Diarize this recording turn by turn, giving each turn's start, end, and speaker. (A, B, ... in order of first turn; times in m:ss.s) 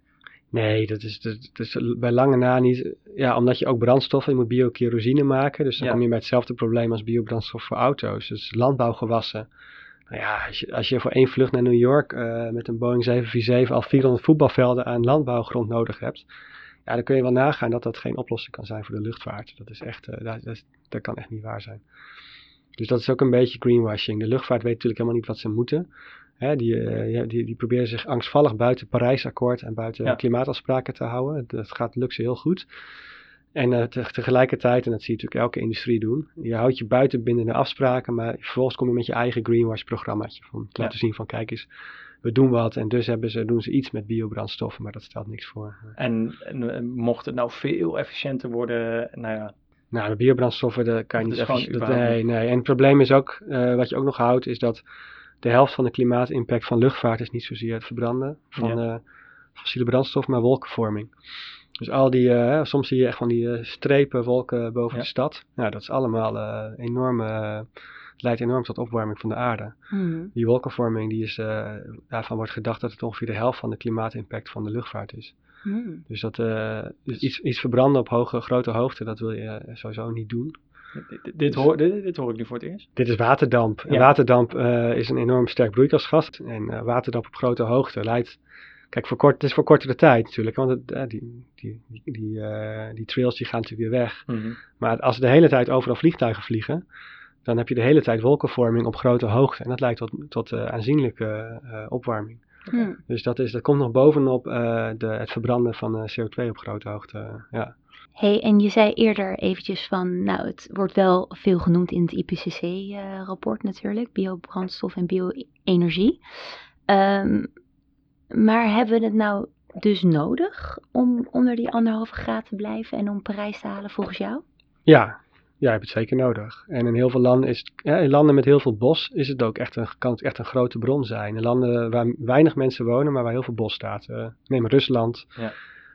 0:00.5-0:09.5 A
0:10.1-0:16.3 A
0:16.9-0:21.8 A
0:22.8-0:25.9 A
0:26.4-0:32.7 A
0:33.6-0:41.7 A
0:42.2-0:46.0 A
0:46.0-0:49.5 B
0:49.9-0:54.8 A
0:51.2-0:52.2 B
0:55.4-0:59.0 A
0:59.6-1:01.1 A
1:01.8-1:09.8 A
1:09.9-1:10.3 C
1:10.4-1:15.3 A
1:15.6-1:16.0 C
1:16.1-1:20.6 A
1:21.0-1:22.9 B
1:23.0-1:28.4 A
1:28.9-1:36.8 A
1:34.3-1:34.6 B
1:37.4-1:42.4 A
1:42.7-1:43.0 C
1:43.1-1:47.8 A
1:48.2-1:56.2 C
1:56.9-1:57.5 C
1:58.3-2:04.4 C
2:04.9-2:15.3 A